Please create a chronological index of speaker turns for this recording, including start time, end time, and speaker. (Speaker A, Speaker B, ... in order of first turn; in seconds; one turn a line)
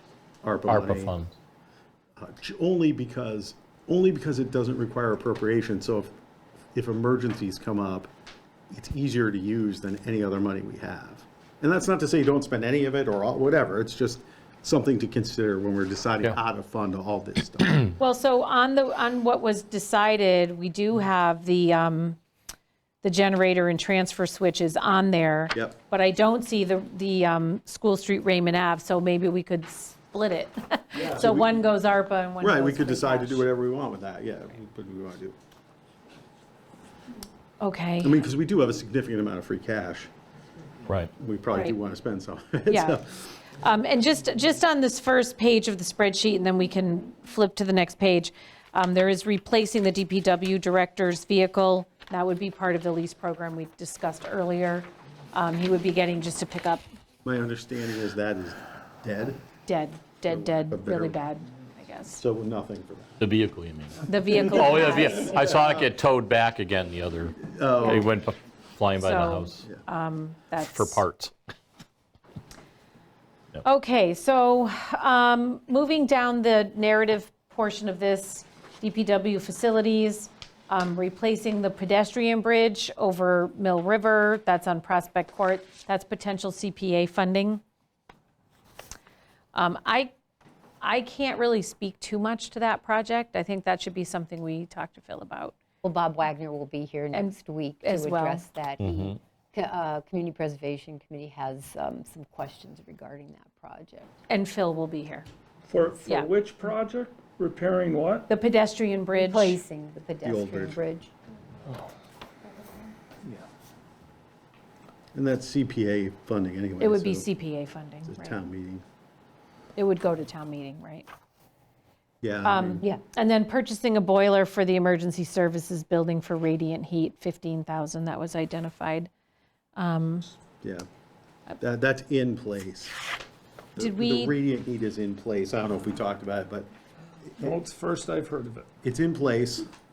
Speaker A: 0.4-1.1
Speaker B: 0.7-1.3
Speaker A: 2.2-6.1
Speaker A: 6.7-8.1
Speaker A: 8.7-17.8
Speaker C: 18.0-22.2
Speaker C: 23.0-33.5
Speaker A: 30.9-31.7
Speaker A: 32.4-35.4
Speaker C: 37.6-38.2
Speaker A: 38.0-40.1
Speaker A: 41.2-43.2
Speaker C: 42.7-43.0
Speaker C: 43.6-56.8
Speaker A: 57.2-59.4
Speaker C: 59.6-62.2
Speaker A: 60.3-61.1
Speaker A: 62.2-63.2
Speaker B: 63.2-69.7
Speaker C: 64.1-65.5
Speaker A: 64.3-65.9
Speaker A: 67.4-68.1
Speaker C: 69.0-71.0
Speaker B: 70.6-71.3
Speaker C: 73.6-87.6
Speaker C: 89.5-90.1
Speaker C: 90.8-95.5
Speaker D: 95.8-104.2
Speaker C: 97.1-98.4
Speaker B: 98.8-99.2
Speaker C: 104.3-105.2
Speaker E: 105.7-108.3
Speaker C: 106.0-106.3
Speaker C: 108.3-109.6
Speaker D: 109.1-111.1
Speaker A: 110.2-110.8
Speaker A: 115.1-117.3
Speaker C: 116.8-118.4
Speaker A: 118.0-118.8
Speaker C: 119.8-121.1
Speaker A: 122.2-122.8
Speaker C: 122.4-129.1
Speaker C: 129.7-130.3
Speaker A: 131.6-133.0
Speaker A: 133.8-136.7
Speaker C: 133.8-134.3
Speaker E: 137.4-138.7
Speaker A: 138.8-139.7